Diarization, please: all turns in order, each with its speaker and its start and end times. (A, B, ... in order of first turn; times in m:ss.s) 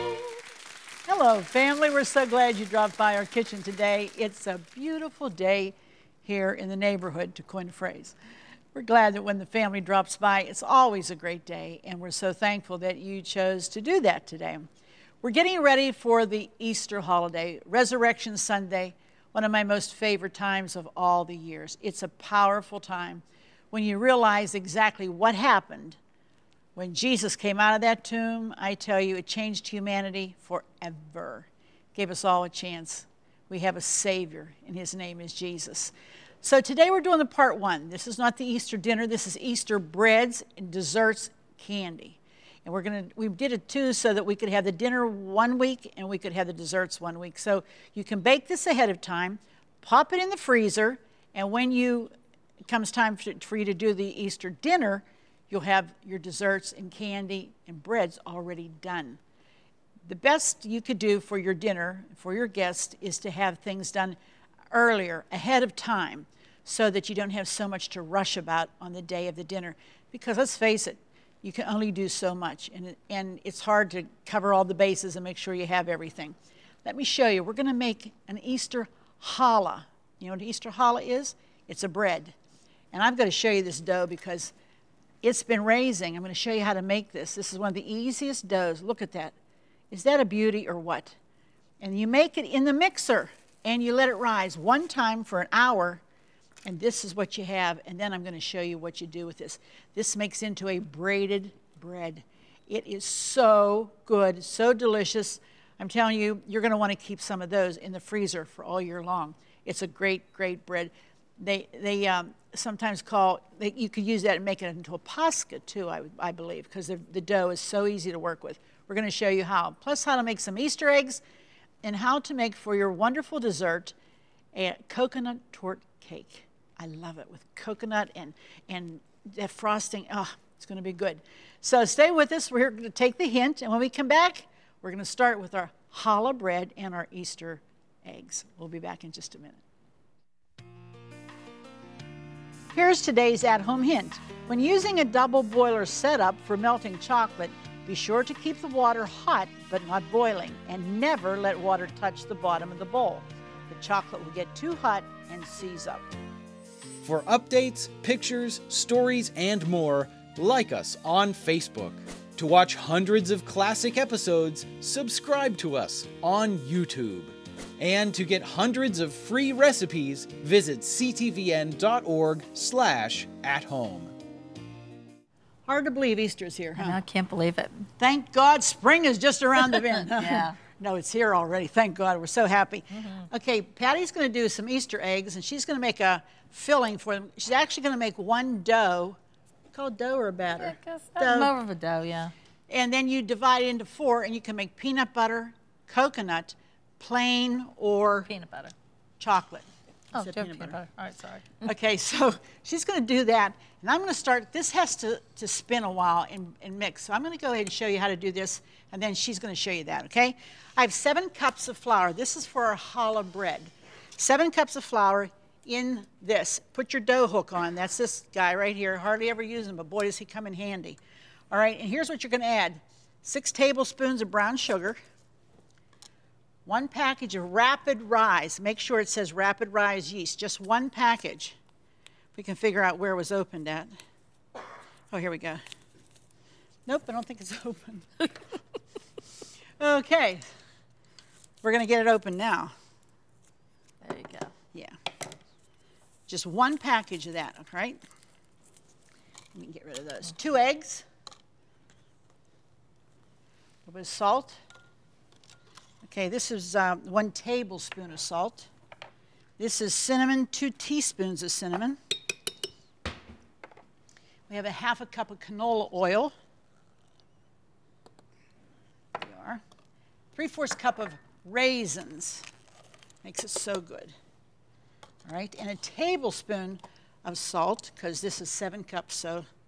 0:01.1-0:08.2 A
0:08.8-0:14.7 A
0:15.2-0:26.0 A
0:26.8-0:52.1 A
0:52.7-0:59.2 A
1:00.1-1:04.2 A
1:04.7-1:22.4 A
1:22.9-1:24.5 A
1:25.2-1:29.4 A
1:29.9-1:31.2 A
1:31.8-1:36.0 A
1:36.6-2:01.2 A
2:01.8-2:04.0 A
2:04.5-2:19.6 A
2:22.7-2:36.1 A
2:37.0-2:54.1 B
2:55.7-2:57.0 A
2:56.8-2:57.9 C
2:58.0-3:09.2 A
3:00.0-3:00.6 C
3:02.9-3:03.3 C
3:09.7-3:11.5 A
3:10.6-3:12.3 C
3:12.7-3:18.3 A
3:18.3-3:18.7 C
3:19.2-3:20.8 A
3:20.1-3:21.7 C
3:21.6-3:41.0 A
3:41.5-3:45.0 A
3:46.7-3:51.6 A
3:52.4-3:53.9 A
3:55.1-3:55.6 A
3:56.9-3:58.3 A
3:59.8-4:00.4 A
4:01.6-4:02.7 A
4:04.0-4:04.5 C
4:06.3-4:08.0 A
4:09.5-4:11.0 A
4:13.9-4:14.6 A
4:16.0-4:18.7 A
4:19.6-4:22.0 A
4:24.5-4:26.3 A
4:29.2-4:29.6 A
4:30.4-4:32.5 A
4:33.2-4:34.1 A
4:35.2-4:39.5 A